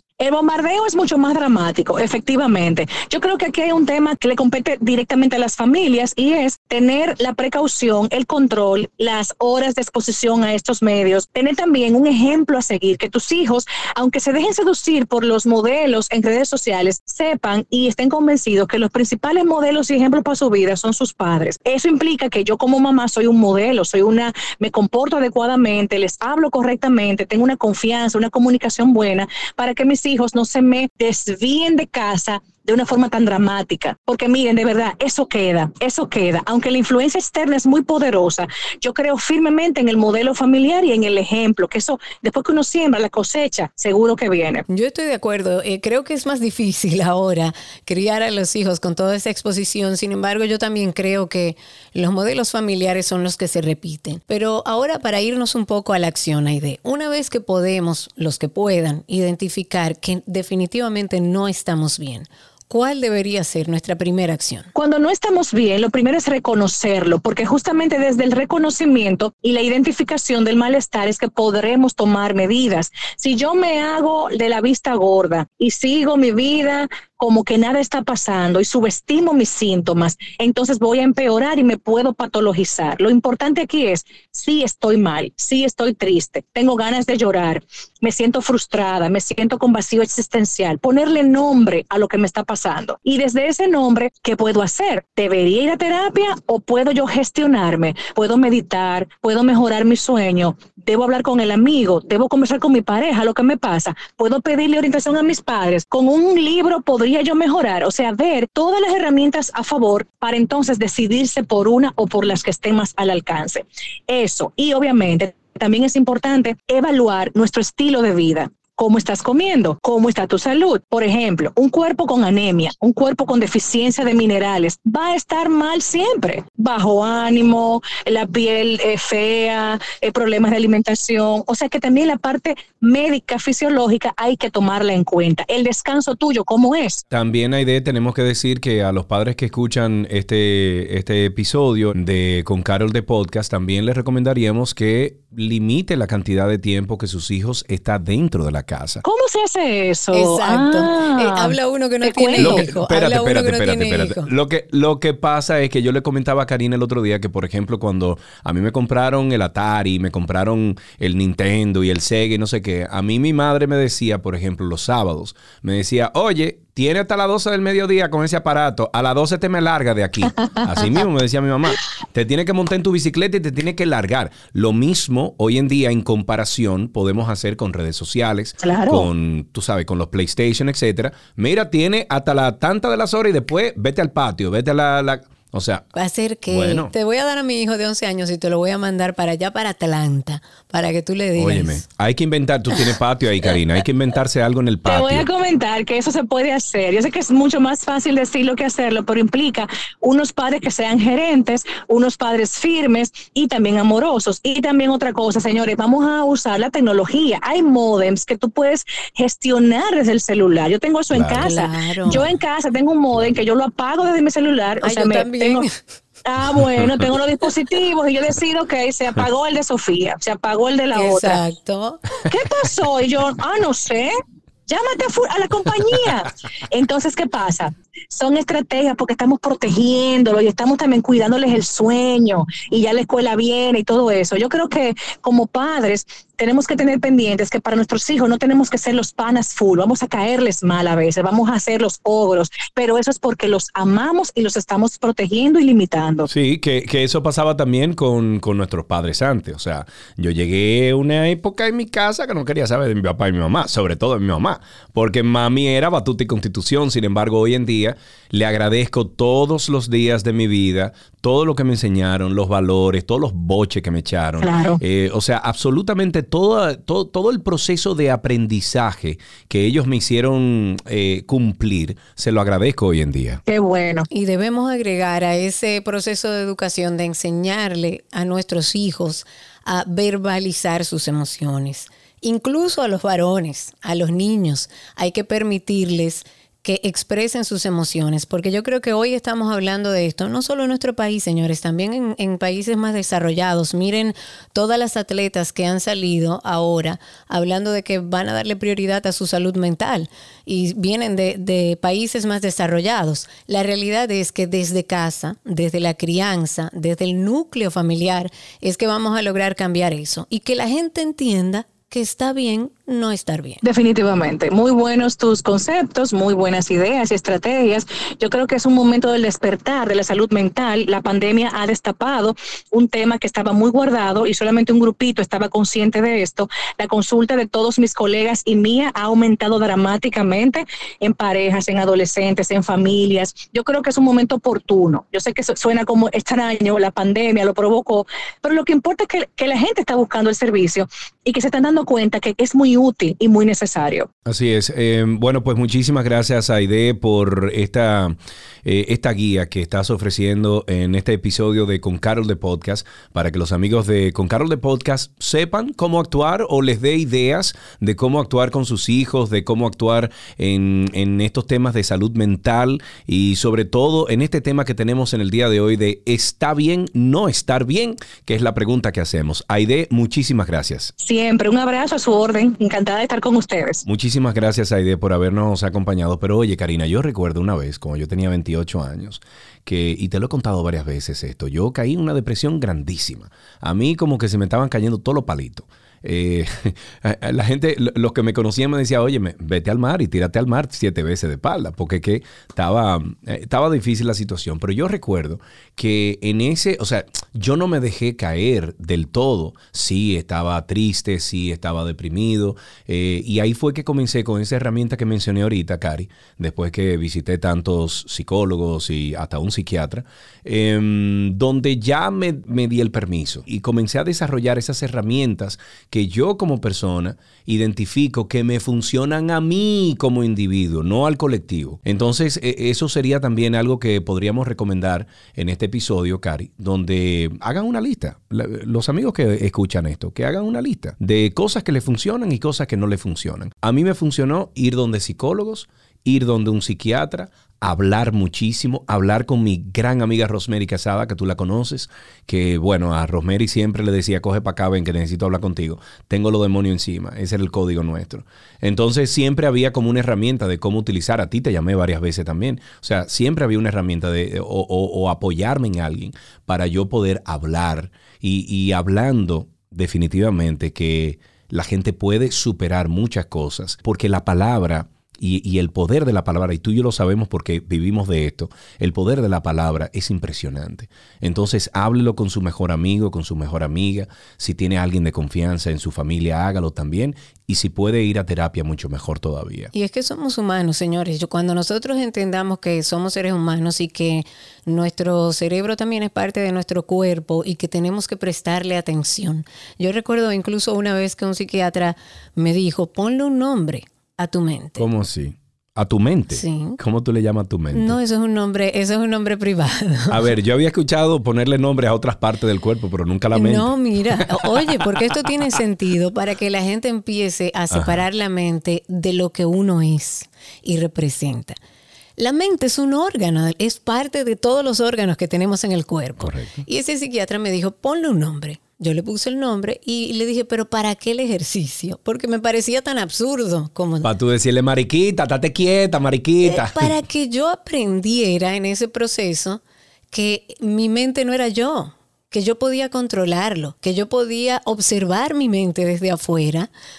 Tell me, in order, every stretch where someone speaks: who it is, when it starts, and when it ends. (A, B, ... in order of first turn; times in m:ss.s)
0:00.2-0:44.6 A
0:44.7-1:04.7 B
1:04.7-2:17.0 A
2:17.1-2:29.0 C
2:29.0-2:32.6 A
2:30.1-2:34.3 B
2:32.4-3:05.9 C
2:58.6-2:59.1 A
3:05.9-3:11.8 B
3:06.5-3:06.9 C
3:11.4-3:15.3 C
3:14.8-3:35.6 A
3:31.1-3:31.6 C
3:31.4-3:32.3 B
3:34.8-3:35.7 B
3:36.2-3:41.4 A
3:40.9-3:42.2 B
3:42.3-3:44.1 A
3:44.7-4:06.3 A
4:06.3-4:33.4 C
4:24.4-4:24.8 A
4:33.4-4:34.1 A
4:34.1-5:13.6 B
5:13.6-5:44.1 A
5:44.2-6:10.9 C
6:11.0-6:13.8 A
6:13.8-7:59.7 C
7:59.7-8:14.8 B
8:14.8-8:18.0 C
8:16.3-8:16.8 B
8:17.7-8:20.3 B
8:20.1-8:24.5 C
8:23.3-8:31.6 B
8:27.7-8:28.0 C
8:32.2-8:44.1 B
8:36.2-8:36.6 C
8:44.0-8:47.0 C
8:46.4-8:56.7 B